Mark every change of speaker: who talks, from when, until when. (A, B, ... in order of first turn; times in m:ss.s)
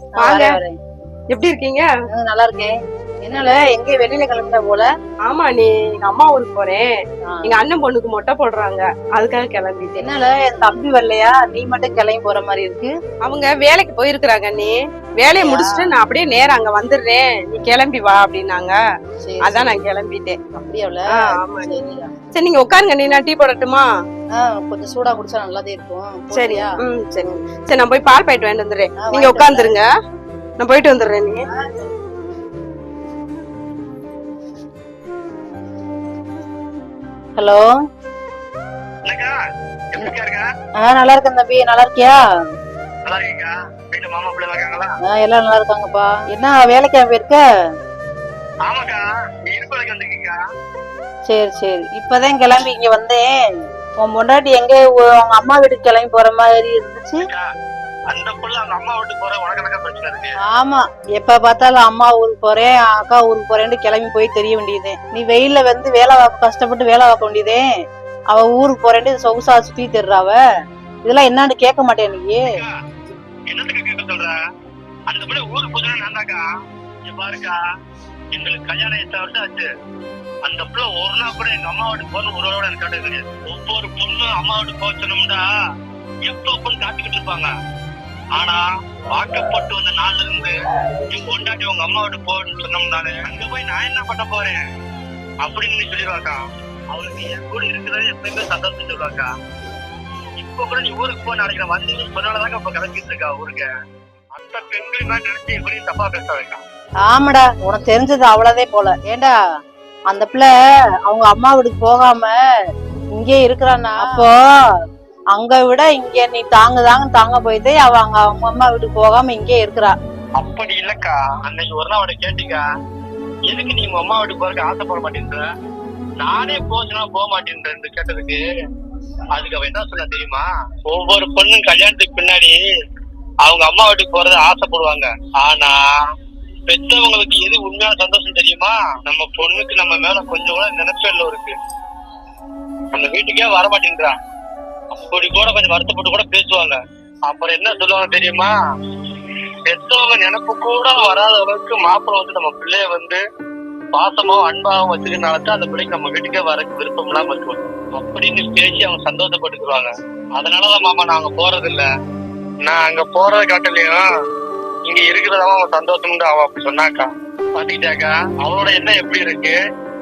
0:00.2-0:00.7 A
0:00.2-0:00.6 B
0:01.3-0:01.8 B
0:02.1-0:02.7 A
0:03.2-0:04.9 A
0:05.2-0:06.9 B
0:07.3-0:07.6 A
0:07.4-0:10.1 B
0:10.0-0:12.9 A
0:13.2-0:18.8 B
0:15.4-0:15.9 A
0:19.2-0:19.7 A
0:19.4-0:20.4 B
0:20.5-0:22.1 A
0:21.2-0:21.8 B
0:22.3-0:23.9 B
0:24.4-0:26.8 A
0:26.3-0:29.9 B
0:29.0-0:29.7 A
0:30.6-0:31.4 B
0:37.4-0:37.7 A
0:39.0-0:39.4 C
0:39.9-0:40.5 C
0:40.8-0:42.2 A
0:43.0-0:44.9 C
0:45.0-0:47.4 A
0:48.6-0:50.4 C
0:51.3-0:53.3 A
0:54.0-0:57.2 A
0:58.1-1:00.3 C
1:00.5-1:07.7 A
1:08.3-1:10.4 A
1:11.0-1:12.6 A
1:12.4-1:12.7 C
1:13.5-1:14.4 C
1:15.1-1:16.4 C
1:17.1-1:17.6 C
1:18.3-1:19.7 C
1:20.4-1:25.4 C
1:26.2-1:27.5 C
1:28.4-1:30.5 C
1:31.1-1:34.6 C
1:35.4-1:36.4 C
1:36.9-1:39.3 C
1:40.4-1:43.7 C
1:44.3-1:46.6 C
1:47.1-1:49.3 A
1:50.1-1:50.5 A
1:51.1-1:52.4 A
1:53.2-1:54.3 A
1:55.3-2:00.0 A
2:00.4-2:02.6 C
2:03.5-2:05.5 C
2:06.2-2:08.4 C
2:09.3-2:12.6 C
2:13.4-2:16.1 C
2:16.7-2:21.5 C
2:22.9-2:24.1 C
2:24.9-2:28.5 C
2:29.7-2:33.2 C
2:33.9-2:41.9 C
2:42.6-2:44.0 C
2:44.9-2:49.6 C